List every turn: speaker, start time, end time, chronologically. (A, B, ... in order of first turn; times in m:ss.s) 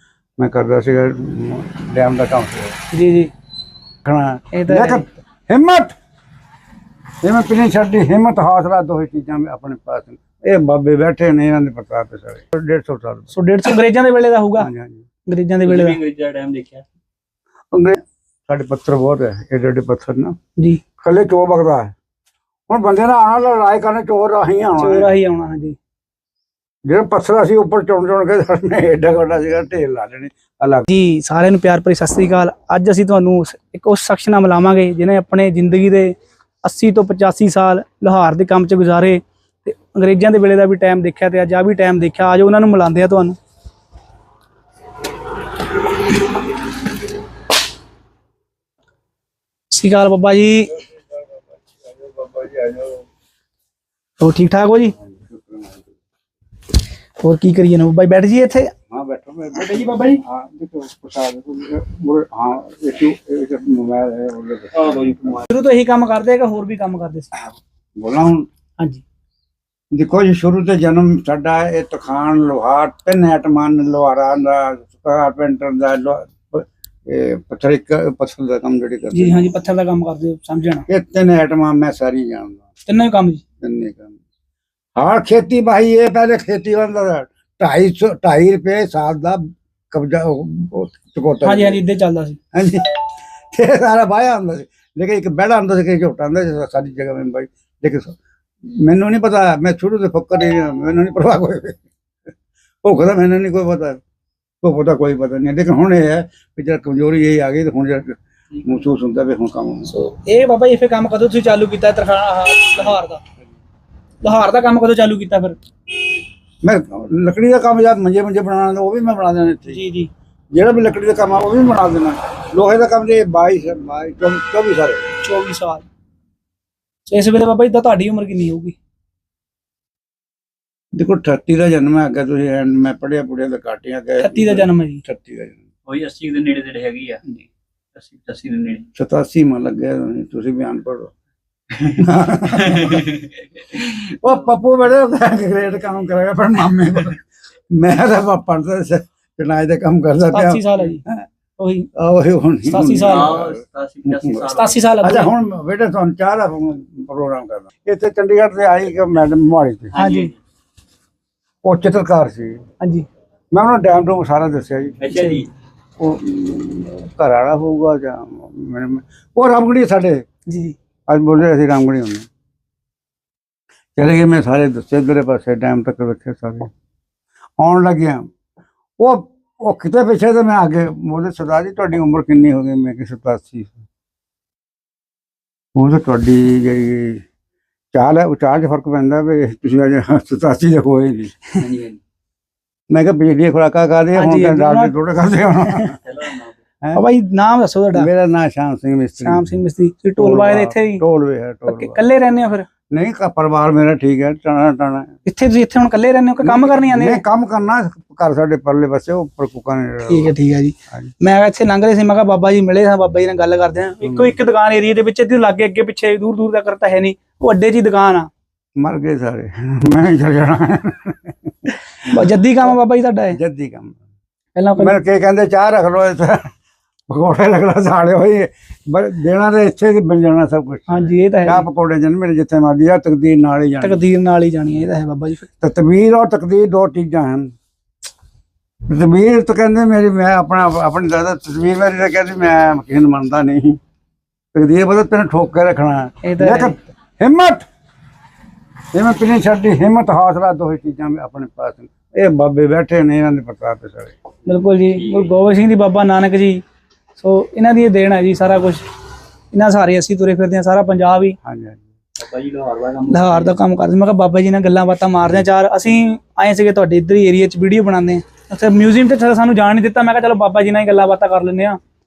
0:00.4-0:02.8 A
0:02.9-0:03.3 B
0:04.0-0:05.9 A
0:04.5-0:05.1 B
0:07.2-0:13.3 A
0:13.3-0:14.7 B
0:14.6-0:15.0 A
0:15.3-0:16.0 B
0:15.6-0:16.8 C
0:17.7-0:20.4 A
0:21.0-0:21.9 A
0:22.7-0:25.1 A
0:24.8-0:25.8 B
0:26.8-0:30.9 A
0:30.9-0:43.4 B
0:49.7-0:50.7 B
0:51.9-0:53.0 A
0:54.2-0:54.9 B
0:55.0-0:55.8 A
0:57.2-0:58.7 B
0:58.9-1:05.4 A
0:59.6-1:00.2 B
1:04.7-1:05.5 C
1:05.5-1:07.3 B
1:08.0-1:08.5 A
1:09.9-1:19.4 A
1:19.1-1:20.8 B
1:20.9-1:22.6 A
1:22.8-1:23.4 B
1:23.6-1:24.1 A
1:25.0-1:31.8 A
1:31.4-1:32.4 B
1:32.5-1:32.9 A
1:33.5-1:38.2 A
1:38.8-1:41.8 A
1:42.8-1:44.0 A
1:44.6-1:49.9 A
1:49.8-1:53.2 B
1:54.2-1:55.6 B
1:56.6-1:59.8 A
1:59.7-2:00.1 B
2:00.5-2:05.1 A
2:05.2-2:05.8 B
2:07.1-2:08.7 B
2:10.9-2:15.6 A
2:14.2-2:15.0 B
2:15.9-2:17.4 C
2:17.9-2:18.9 C
2:18.9-2:21.1 A
2:21.8-2:31.3 A
2:30.3-2:31.0 B
2:31.6-2:31.9 B
2:32.0-2:34.4 A
2:32.7-2:33.3 B
2:33.0-2:34.8 C
2:34.5-2:35.3 B
2:35.0-2:40.0 A
2:39.9-2:40.3 C
2:40.0-2:40.3 B
2:41.6-2:42.6 A
2:42.8-2:43.1 B
2:43.5-2:45.1 A
2:45.0-2:45.5 C
2:45.1-2:45.4 B
2:46.0-2:50.2 A
2:50.5-2:50.8 B
2:51.1-2:52.3 A
2:54.0-2:56.7 A
2:57.6-2:58.3 A
2:59.0-3:03.8 A
3:05.7-3:07.2 A
3:07.9-3:11.4 A
3:11.6-3:12.0 C
3:12.9-3:16.0 A
3:14.1-3:14.9 B
3:16.0-3:16.6 C
3:16.9-3:18.1 B
3:17.9-3:19.6 A
3:19.2-3:21.0 B
3:20.2-3:22.0 A
3:21.7-3:22.7 B
3:22.9-3:25.1 A
3:25.2-3:27.2 B
3:26.4-3:30.3 A
3:30.1-3:38.3 B
3:34.0-3:34.4 A
3:38.8-3:42.7 A
3:42.0-3:43.4 B
3:43.3-3:44.0 A
3:44.6-3:45.0 B
3:44.8-3:46.5 A
3:47.1-3:54.0 A
3:50.9-3:51.6 B
3:53.8-3:55.5 B
3:55.6-3:57.5 A
3:58.9-4:03.8 A
4:04.5-4:07.6 A
4:06.2-4:06.8 B
4:08.9-4:14.2 A
4:14.4-4:16.6 B
4:14.9-4:15.3 C
4:17.2-4:18.8 B
4:19.5-4:21.4 B
4:21.4-4:21.9 A
4:22.2-4:23.5 C
4:23.1-4:31.8 B